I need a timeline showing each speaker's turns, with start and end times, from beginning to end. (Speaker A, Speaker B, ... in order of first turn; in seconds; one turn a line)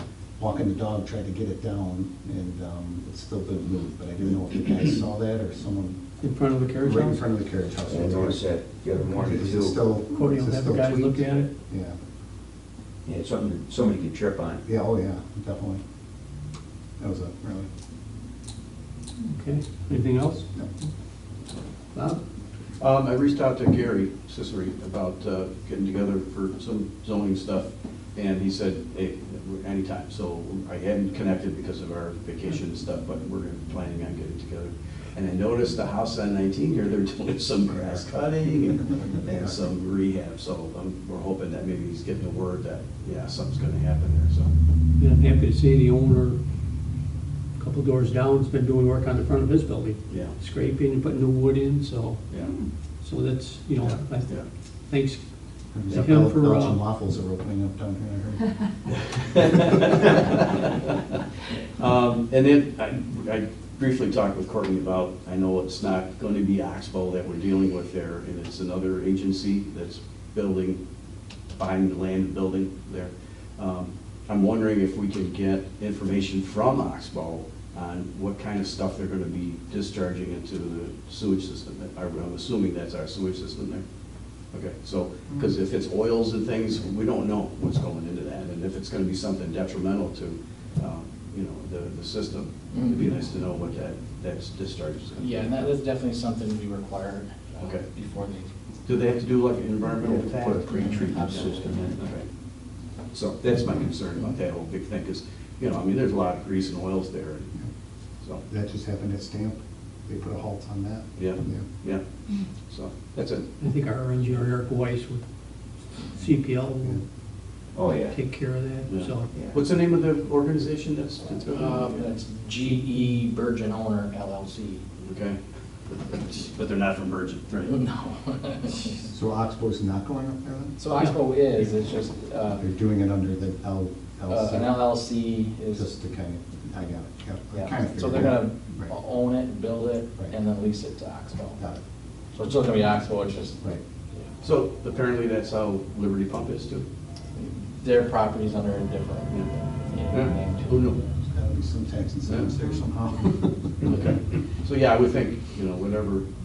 Speaker A: 0.4-6.0
Speaker B: 6.2-7.3
Speaker A: 6.8-11.9
Speaker C: 7.8-9.8
Speaker B: 10.1-11.5
Speaker C: 13.0-14.6
Speaker A: 14.7-15.8
Speaker A: 17.0-17.7
Speaker B: 19.2-20.5
Speaker B: 21.9-22.2
Speaker D: 22.8-44.5
Speaker A: 37.6-38.1
Speaker A: 38.6-39.7
Speaker B: 45.0-46.4
Speaker B: 47.6-52.3
Speaker D: 50.1-50.4
Speaker D: 52.3-52.5
Speaker B: 53.0-54.3
Speaker D: 53.8-54.4
Speaker B: 54.9-55.2
Speaker A: 55.7-58.5
Speaker B: 55.9-56.8
Speaker D: 59.1-60.7
Speaker D: 61.8-70.8
Speaker D: 71.5-83.8
Speaker D: 84.5-95.7
Speaker E: 92.7-93.0
Speaker E: 95.2-98.5
Speaker D: 98.8-102.3
Speaker C: 100.0-102.0
Speaker E: 100.7-101.8
Speaker D: 103.1-107.5
Speaker A: 108.5-111.6
Speaker D: 111.2-112.0
Speaker D: 112.7-113.5
Speaker B: 113.6-115.2
Speaker B: 116.1-117.0
Speaker C: 117.7-118.2
Speaker B: 118.1-119.3
Speaker D: 118.9-122.1
Speaker E: 121.5-124.8
Speaker D: 125.0-125.4
Speaker D: 125.9-127.7
Speaker E: 127.6-129.1
Speaker A: 129.1-130.8
Speaker E: 130.8-132.7
Speaker A: 132.6-134.9
Speaker E: 134.3-135.9
Speaker A: 135.7-138.9
Speaker E: 137.5-141.6
Speaker E: 142.3-143.6
Speaker D: 144.4-146.8
Speaker E: 147.3-150.9
Speaker D: 150.1-151.0
Speaker A: 151.1-153.7
Speaker D: 152.3-152.6
Speaker D: 153.8-156.2